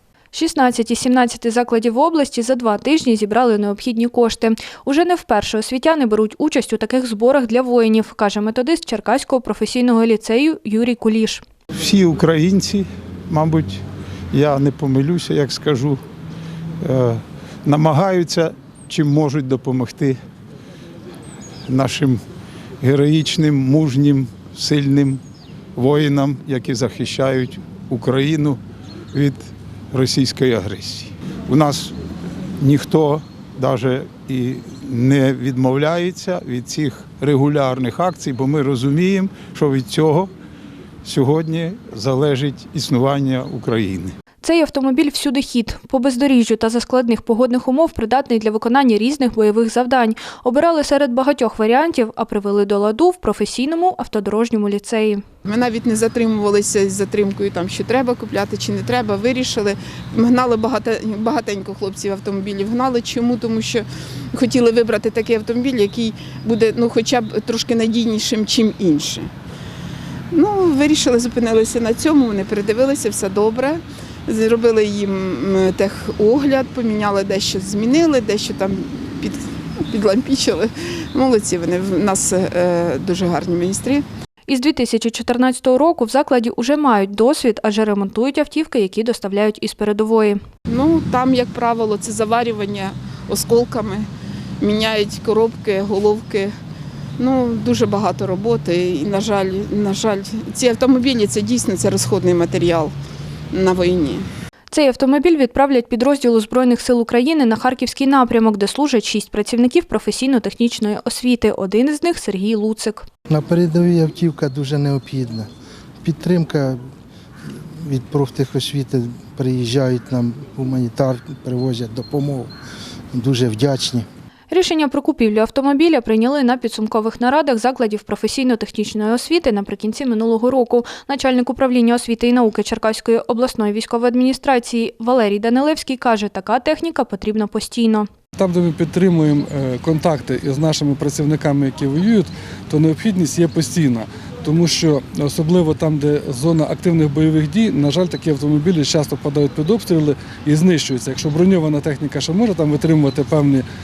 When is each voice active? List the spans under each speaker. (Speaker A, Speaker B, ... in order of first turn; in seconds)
Speaker A: 0.3-11.4, 44.4-55.2, 84.5-90.4, 104.7-113.0, 124.5-138.1
Speaker B: 11.8-16.0, 16.8-20.2, 21.7-22.2, 22.8-25.2, 25.8-28.6, 29.1-31.9, 32.6-40.3, 41.0-44.1
Speaker C: 55.4-69.3, 70.3-79.4, 79.9-84.0, 90.7-94.1, 94.6-96.5, 97.2-102.9, 103.5-104.2
Speaker D: 113.3-115.5, 116.0-116.8, 117.8-122.5, 123.1-124.0
Speaker E: 138.4-153.7